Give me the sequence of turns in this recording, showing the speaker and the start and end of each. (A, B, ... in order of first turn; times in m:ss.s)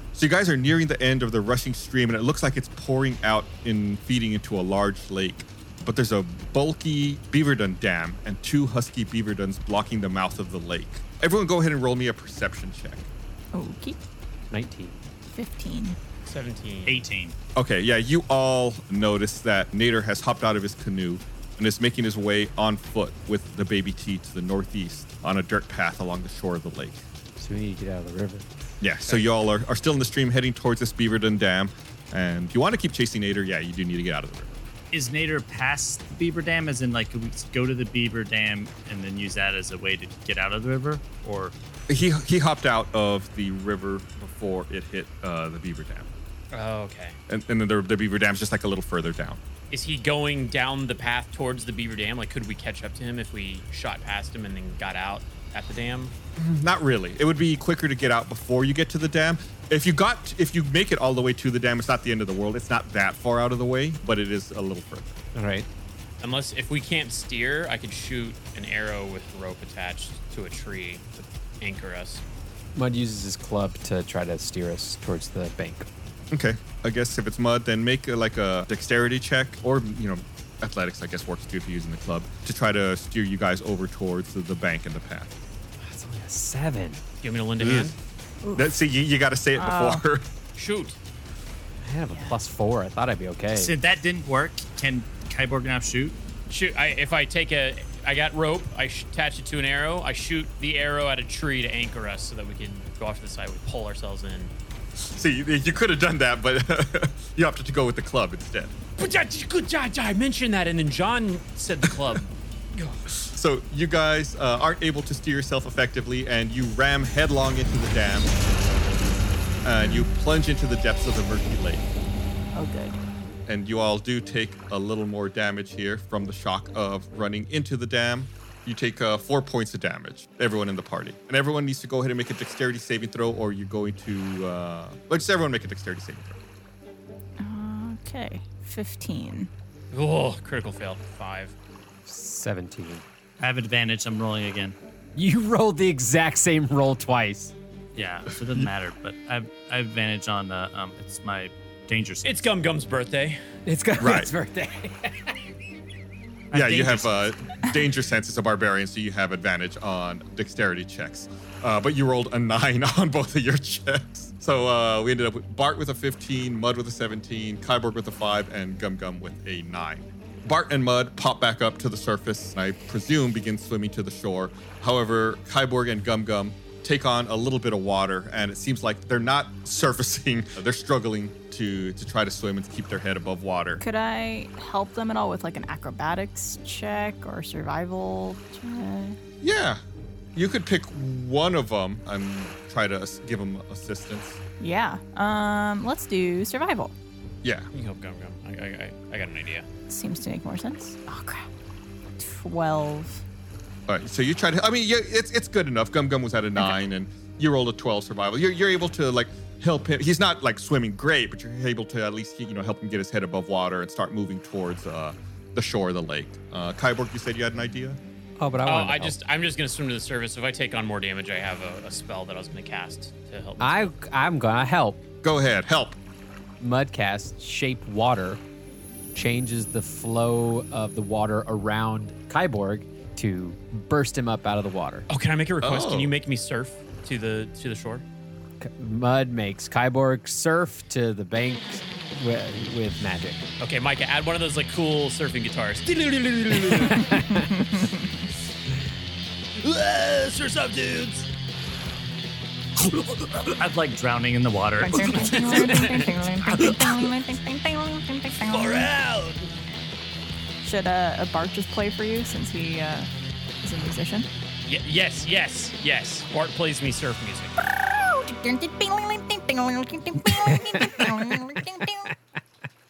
0:00.1-0:13.1 A
0:13.5-0:14.0 B
0:14.5-0:15.0 C
0:15.3-0:16.0 B
0:16.2-0:17.0 D
0:16.8-0:17.3 E
0:17.6-0:27.0 A
0:27.4-0:28.4 C
0:28.8-0:34.6 A
0:34.9-0:41.5 E
0:41.9-0:46.1 A
0:46.5-0:47.2 D
0:47.3-0:49.4 A
0:49.7-0:56.1 D
0:56.4-1:05.1 A
1:05.3-1:05.7 C
1:06.2-1:12.2 D
1:12.7-1:15.9 C
1:16.3-1:25.3 A
1:25.8-1:27.0 C
1:27.2-1:28.0 D
1:27.6-1:27.9 A
1:28.4-1:28.7 B
1:28.5-1:30.2 A
1:29.6-1:30.0 B
1:30.6-1:31.0 D
1:31.8-1:33.7 C
1:32.1-1:32.4 B
1:33.5-1:36.2 E
1:36.5-1:44.5 D
1:45.1-1:48.7 A
1:49.0-1:53.0 D
1:53.1-1:58.4 A
1:59.6-2:01.8 A
2:02.5-2:03.0 B
2:03.5-2:16.4 A
2:17.4-2:19.5 B
2:19.9-2:21.5 D
2:22.0-2:23.0 C
2:23.4-2:24.8 E
2:25.2-2:27.5 C
2:27.9-2:32.4 E
2:32.2-2:33.4 D
2:33.6-2:35.3 C
2:34.0-2:34.3 A
2:36.5-3:03.8 A
2:36.5-2:37.0 E
3:03.8-3:09.2 B
3:09.4-3:09.8 A
3:10.3-3:14.4 A
3:14.6-3:16.9 B
3:17.4-3:17.7 A
3:17.7-3:19.7 D
3:19.9-3:21.5 B
3:22.2-3:23.2 B
3:23.9-3:38.0 A
3:38.4-3:39.2 C
3:38.6-3:43.9 D
3:43.6-3:45.0 C
3:45.2-3:46.0 A
3:46.6-3:48.4 C
3:49.1-3:55.1 C
3:55.1-3:58.0 D
3:55.6-3:56.1 A
3:58.6-4:03.4 C
4:03.6-4:07.1 D
4:06.8-4:07.4 C
4:07.1-4:08.1 B
4:09.6-4:11.3 D
4:13.5-4:15.5 E
4:14.8-4:18.9 B
4:15.4-4:16.1 D
4:18.5-4:19.4 D
4:20.6-4:23.1 B
4:23.6-4:24.3 B
4:24.6-4:27.5 D
4:27.6-4:32.1 B
4:30.4-4:31.2 C